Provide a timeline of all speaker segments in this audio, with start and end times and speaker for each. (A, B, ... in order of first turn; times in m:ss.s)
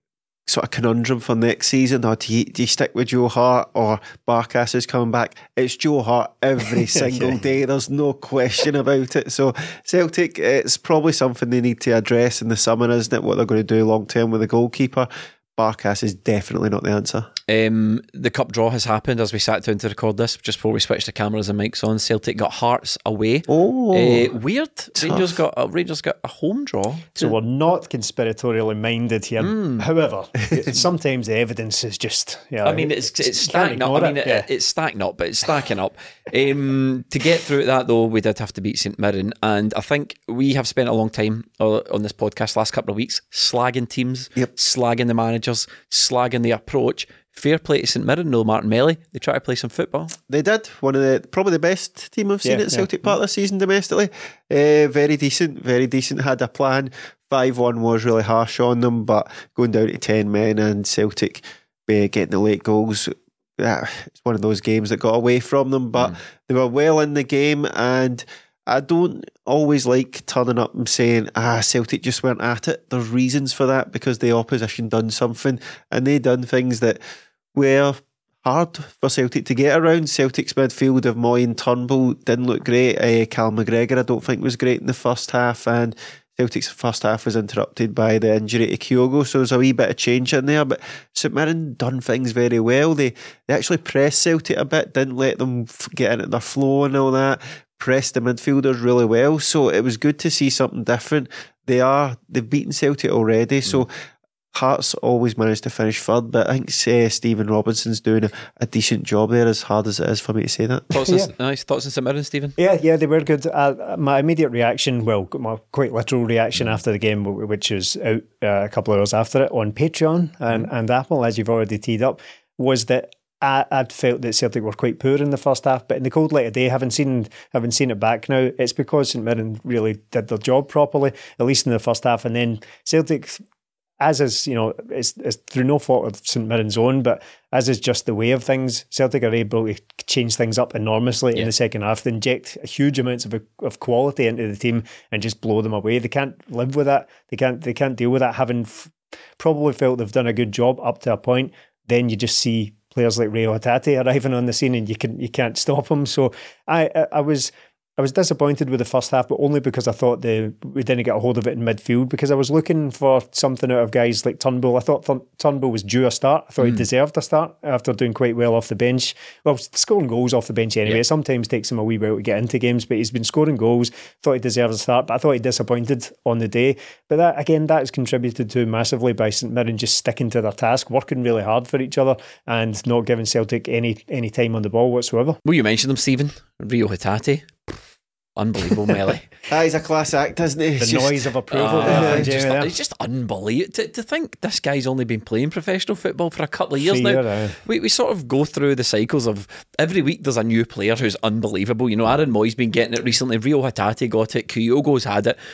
0:00.5-0:17.3 A
0:06.8-0:07.4 B
0:17.5-0:27.3 C
0:23.5-0:24.4 A
0:25.0-0:25.4 A
0:27.2-0:34.5 B
0:29.4-0:29.8 C
0:32.6-0:50.1 C
0:50.3-1:17.0 A
0:52.4-0:52.9 B
1:17.6-1:43.9 A
1:44.5-1:50.9 A
1:50.9-1:52.6 C
1:51.1-1:51.3 B
1:52.6-2:13.4 B
2:14.0-3:05.4 B
3:05.4-3:07.8 C
3:08.4-3:09.3 C
3:09.5-3:11.2 A
3:10.8-3:12.7 B
3:11.5-3:25.4 C
3:11.8-3:12.3 A
3:16.8-3:17.6 B